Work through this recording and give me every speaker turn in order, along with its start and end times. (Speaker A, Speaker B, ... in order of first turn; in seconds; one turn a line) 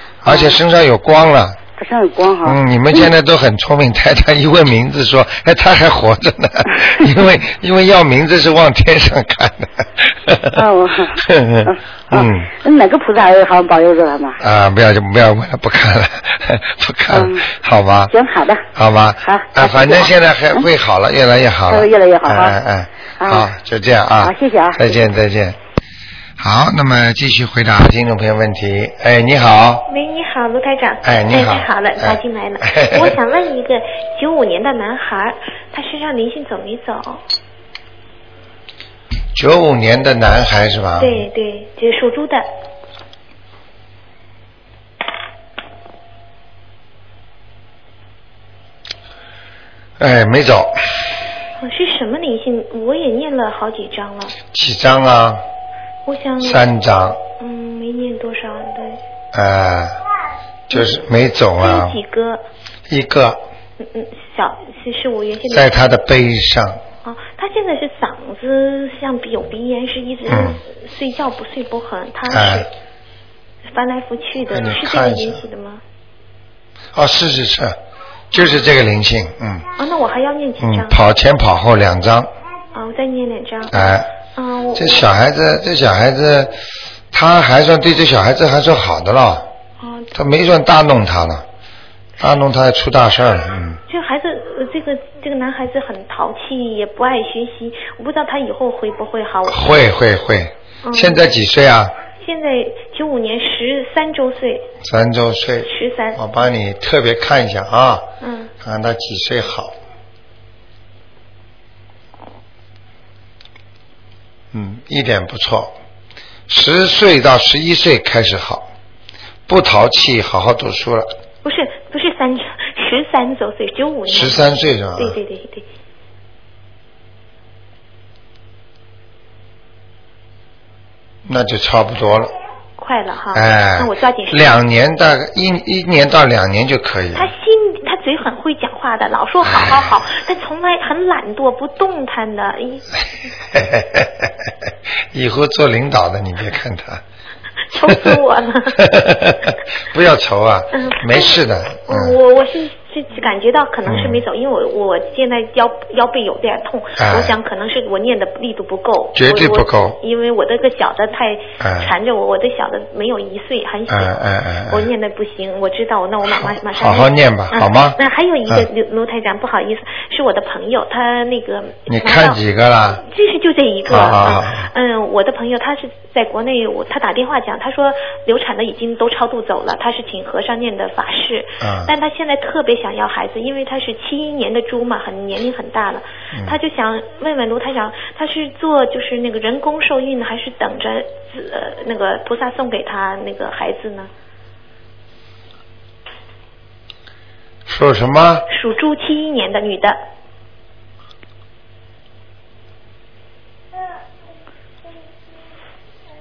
Speaker A: 0.2-1.6
Speaker B: 0.2-0.6
Speaker B: 1.8-3.1
Speaker A: 2.4-12.5
Speaker B: 10.5-14.4
Speaker A: 14.4-18.1
Speaker B: 17.1-17.4
Speaker B: 18.1-18.6
Speaker A: 18.7-25.6
Speaker B: 19.2-20.7
Speaker B: 21.7-22.6
Speaker B: 23.2-23.4
Speaker B: 24.2-25.0
Speaker A: 26.4-29.8
Speaker C: 29.9-37.2
Speaker A: 31.0-33.2
Speaker A: 39.3-41.2
Speaker C: 41.0-42.5
Speaker A: 50.0-50.8
Speaker C: 51.6-54.4
Speaker A: 54.5-55.4
Speaker C: 56.0-56.6
Speaker A: 56.4-57.2
Speaker C: 57.4-59.0
Speaker A: 59.3-60.0
Speaker A: 60.7-62.0
Speaker C: 61.6-62.4
Speaker A: 62.9-63.4
Speaker C: 63.8-65.8
Speaker A: 65.5-66.8
Speaker C: 67.0-72.7
Speaker A: 70.3-70.6
Speaker A: 72.3-72.7
Speaker C: 73.7-75.8
Speaker A: 74.5-75.4
Speaker A: 76.9-77.8
Speaker A: 78.3-79.6
Speaker C: 78.3-78.6
Speaker C: 79.8-81.0
Speaker A: 80.6-82.3
Speaker C: 82.7-85.0
Speaker A: 83.7-84.1
Speaker A: 84.7-86.6
Speaker A: 87.1-89.5
Speaker C: 89.8-90.1
Speaker A: 90.1-91.4
Speaker A: 92.2-93.8
Speaker C: 93.9-99.8
Speaker A: 99.5-101.9
Speaker C: 100.8-101.3
Speaker C: 102.2-104.7
Speaker A: 104.8-108.0
Speaker C: 105.6-106.2
Speaker C: 108.2-108.5
Speaker A: 108.6-109.7
Speaker A: 114.5-115.7
Speaker A: 116.5-118.7
Speaker A: 119.5-121.1
Speaker C: 121.4-125.7
Speaker A: 124.1-125.2
Speaker A: 131.3-132.3
Speaker C: 132.8-134.6
Speaker A: 133.3-137.3
Speaker C: 137.1-142.9
Speaker A: 139.4-139.9
Speaker A: 143.5-147.0
Speaker C: 147.7-148.8
Speaker A: 147.8-148.2
Speaker A: 148.8-152.2
Speaker C: 150.7-164.2
Speaker A: 153.8-154.2
Speaker A: 157.0-157.4
Speaker A: 159.1-160.0
Speaker A: 161.6-161.9
Speaker A: 163.9-164.9
Speaker C: 164.7-172.4
Speaker A: 166.2-168.7
Speaker A: 171.9-173.0
Speaker C: 173.0-194.1
Speaker A: 173.9-174.7
Speaker A: 181.6-181.9
Speaker A: 186.3-186.6
Speaker A: 197.7-198.4
Speaker C: 198.5-200.0